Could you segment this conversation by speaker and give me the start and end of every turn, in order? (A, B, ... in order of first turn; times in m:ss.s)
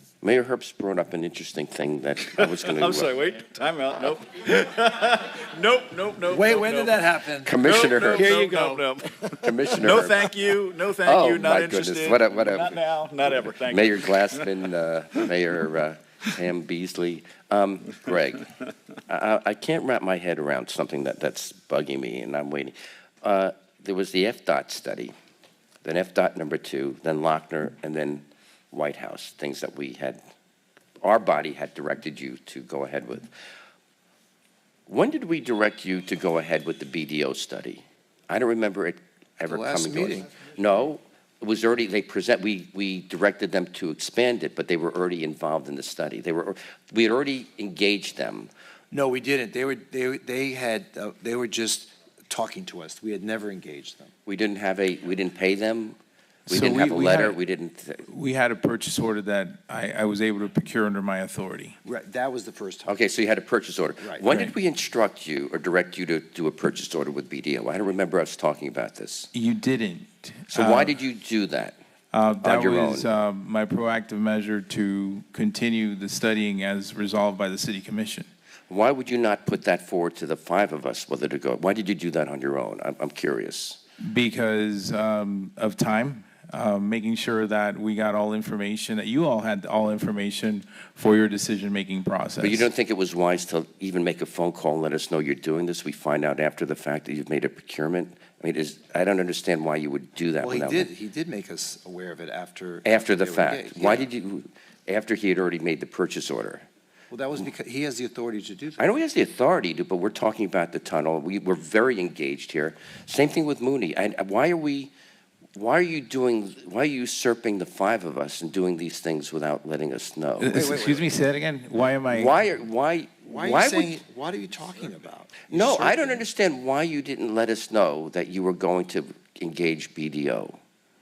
0:00.2-0:03.1 A
0:02.4-0:14.6 B
0:06.3-0:08.9 C
0:07.4-0:08.3 A
0:09.4-0:10.3 A
0:11.0-0:12.8 A
0:13.5-0:18.5 A
0:19.1-0:25.1 A
0:25.8-0:30.2 A
0:31.0-0:33.3 A
0:34.9-0:48.5 A
0:39.5-0:40.3 C
0:48.9-0:54.1 C
0:54.2-0:56.0 A
0:56.5-0:57.4 D
0:56.5-0:58.1 A
0:58.1-1:01.8 D
1:01.8-1:03.0 C
1:02.8-1:09.3 A
1:04.2-1:04.5 D
1:09.3-1:11.0 D
1:10.5-1:11.8 A
1:12.1-1:18.3 D
1:12.4-1:13.1 A
1:18.7-1:23.8 A
1:24.0-1:32.7 D
1:32.4-1:40.9 A
1:40.4-1:44.1 C
1:42.8-1:46.6 A
1:47.1-1:48.9 C
1:48.8-1:54.9 A
1:55.5-2:00.6 A
2:00.4-2:02.4 D
2:00.5-2:01.2 C
2:02.1-2:04.0 A
2:03.3-2:06.3 C
2:05.5-2:10.6 A